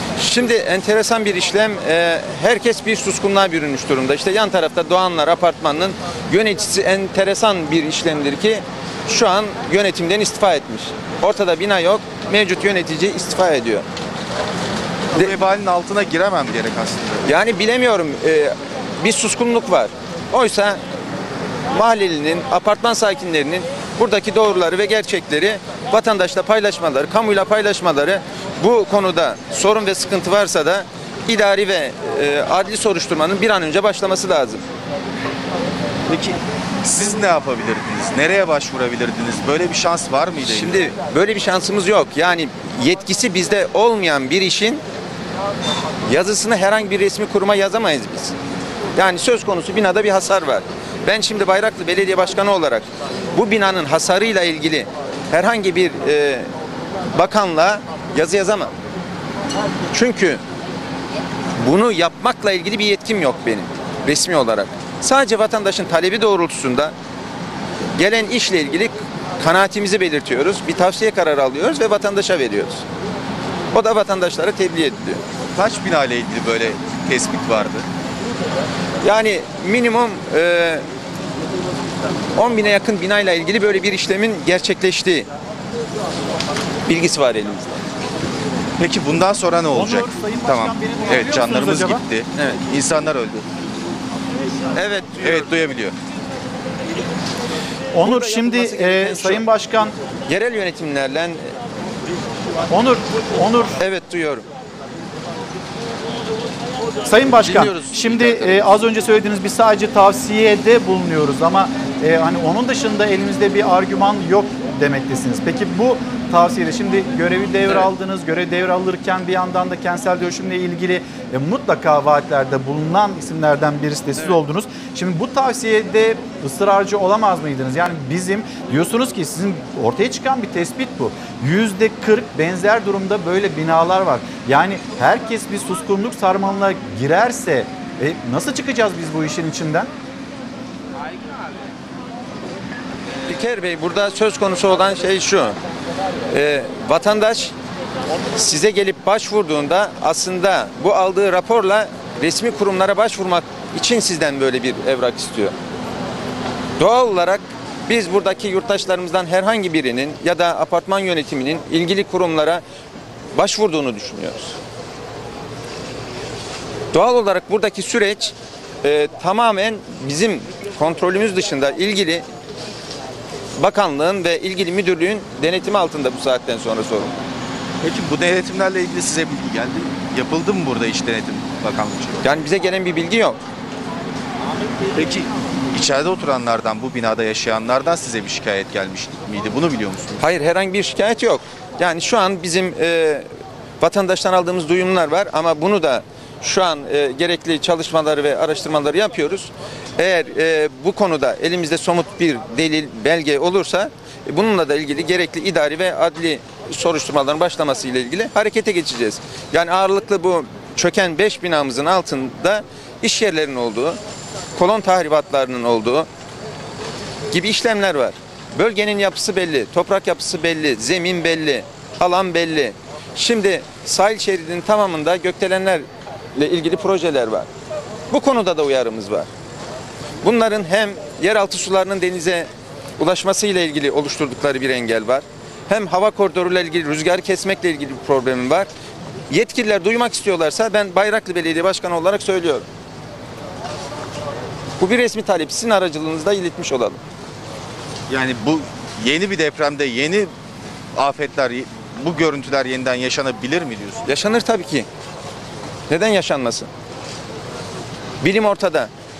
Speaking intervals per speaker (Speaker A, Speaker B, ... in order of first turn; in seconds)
Speaker A: 0.2-13.8, 17.2-20.8, 21.7-34.6, 40.4-44.8, 46.1-48.3, 49.0-56.5, 57.1-58.7, 59.9-60.4, 61.6-66.9, 68.0-72.8, 73.7-75.2, 79.0-80.8, 82.3-85.3, 86.9-87.7, 94.7-95.5, 98.0-99.4, 100.3-101.5, 103.8-104.5, 143.3-145.6, 146.3-147.5, 148.3-155.5, 156.8-162.6, 163.3-164.6, 166.9-172.2, 173.6-177.1, 182.2-183.4, 190.2-193.3, 193.8-214.0, 214.6-216.1, 217.3-227.5, 228.1-229.3, 230.2-238.7, 239.3-242.7, 244.8-247.0, 254.1-254.9, 255.9-256.7, 258.2-258.9
Speaker B: 15.1-17.3, 36.1-40.8, 75.5-77.8, 88.8-93.5, 95.2-95.9, 107.2-108.8, 177.8-182.2, 184.9-190.2, 248.1-250.3, 250.9-254.0
Speaker C: 89.7-92.0, 97.9-99.9, 102.7-103.8, 107.0-139.9